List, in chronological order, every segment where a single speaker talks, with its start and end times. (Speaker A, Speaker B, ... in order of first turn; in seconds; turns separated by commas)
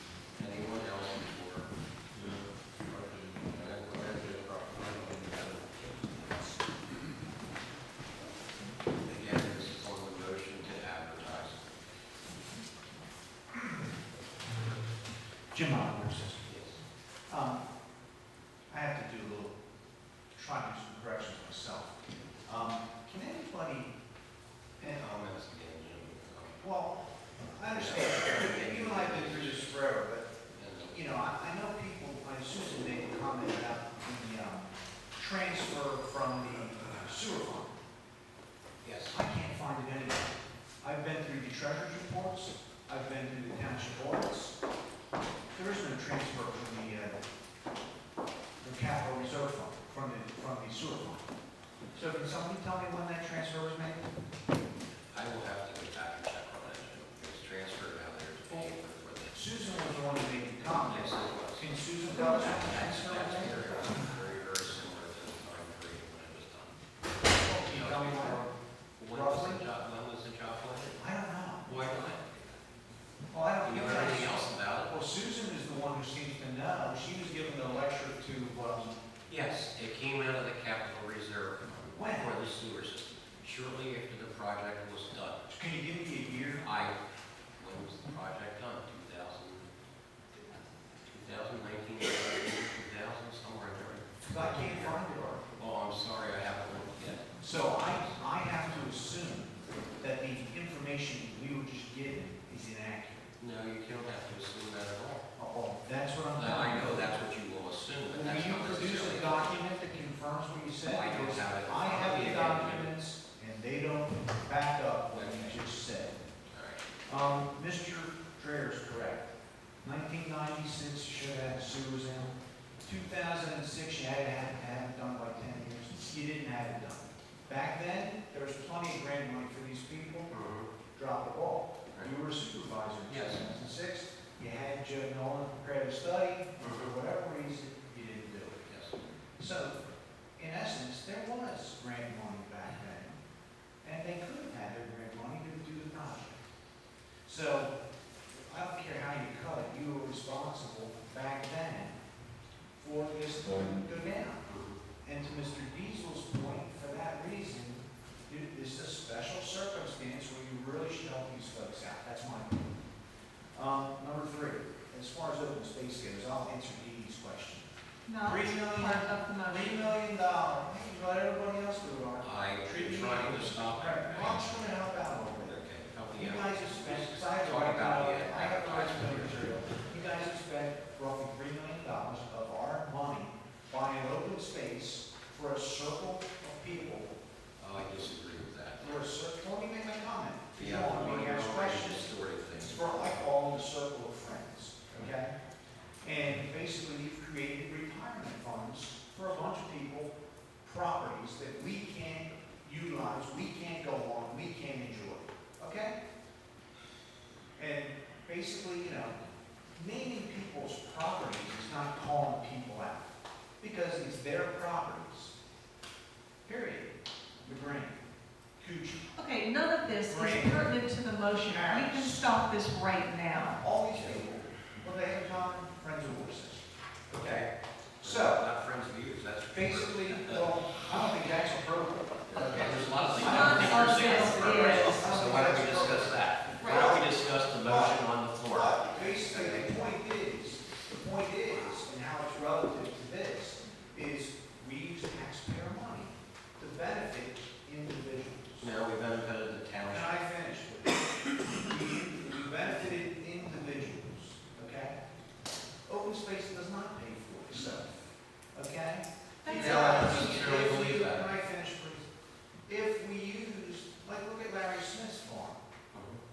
Speaker A: 0.3-1.7, Speaker A: 3.4-6.0, Speaker A: 9.0-11.6, Speaker B: 13.5-13.9, Speaker B: 15.5-16.6, Speaker A: 16.4-16.8, Speaker B: 17.3-17.6, Speaker B: 18.7-19.6, Speaker B: 20.3-23.9, Speaker B: 24.8-25.1, Speaker A: 24.8-26.6, Speaker B: 26.6-30.3, Speaker A: 27.7-29.8, Speaker A: 30.5-31.0, Speaker B: 30.9-37.8, Speaker A: 38.8-39.2, Speaker B: 39.1-44.5, Speaker B: 45.5-47.2, Speaker B: 48.6-51.3, Speaker B: 51.9-54.1, Speaker A: 55.1-59.4, Speaker B: 59.3-63.9, Speaker A: 60.7-66.8, Speaker B: 67.3-68.5, Speaker A: 67.3-71.0, Speaker B: 69.1-69.6, Speaker B: 71.0-71.7, Speaker A: 71.6-72.5, Speaker B: 73.3-79.0, Speaker A: 73.6-75.0, Speaker A: 79.3-85.4, Speaker B: 81.9-82.3, Speaker B: 85.5-86.7, Speaker A: 86.6-87.0, Speaker A: 87.6-89.7, Speaker A: 91.1-95.0, Speaker B: 94.2-95.5, Speaker A: 95.6-98.2, Speaker B: 97.4-103.3, Speaker A: 103.4-105.2, Speaker B: 105.4-107.2, Speaker A: 106.3-109.6, Speaker B: 108.1-116.2, Speaker A: 110.8-112.9, Speaker A: 115.1-115.6, Speaker A: 116.5-116.8, Speaker B: 117.0-119.3, Speaker B: 119.8-130.3, Speaker A: 130.3-130.7, Speaker B: 130.9-138.7, Speaker A: 133.1-133.4, Speaker A: 136.6-136.9, Speaker A: 138.7-138.9, Speaker B: 139.4-143.2, Speaker B: 143.8-146.4, Speaker B: 147.2-147.7, Speaker B: 148.3-152.0, Speaker B: 152.8-154.5, Speaker A: 154.4-154.8, Speaker B: 155.0-162.8, Speaker B: 163.5-167.7, Speaker C: 168.1-169.7, Speaker B: 168.2-175.6, Speaker A: 172.2-179.5, Speaker B: 176.1-187.1, Speaker A: 187.6-189.0, Speaker B: 188.8-195.3, Speaker A: 190.6-193.2, Speaker B: 196.0-205.9, Speaker B: 207.6-209.2, Speaker B: 209.7-215.3, Speaker B: 216.4-218.1, Speaker B: 218.6-219.1, Speaker C: 219.2-223.6, Speaker B: 220.0-222.3, Speaker B: 223.6-227.5, Speaker A: 227.1-227.5, Speaker B: 228.0-228.4, Speaker A: 228.0-230.5, Speaker B: 229.5-248.7, Speaker A: 232.3-239.8, Speaker C: 233.2-235.3, Speaker C: 236.6-237.0, Speaker A: 248.6-250.2, Speaker B: 249.8-255.0, Speaker B: 255.8-262.1, Speaker C: 259.4-260.5, Speaker A: 259.5-261.3, Speaker B: 262.6-265.6, Speaker A: 265.9-266.2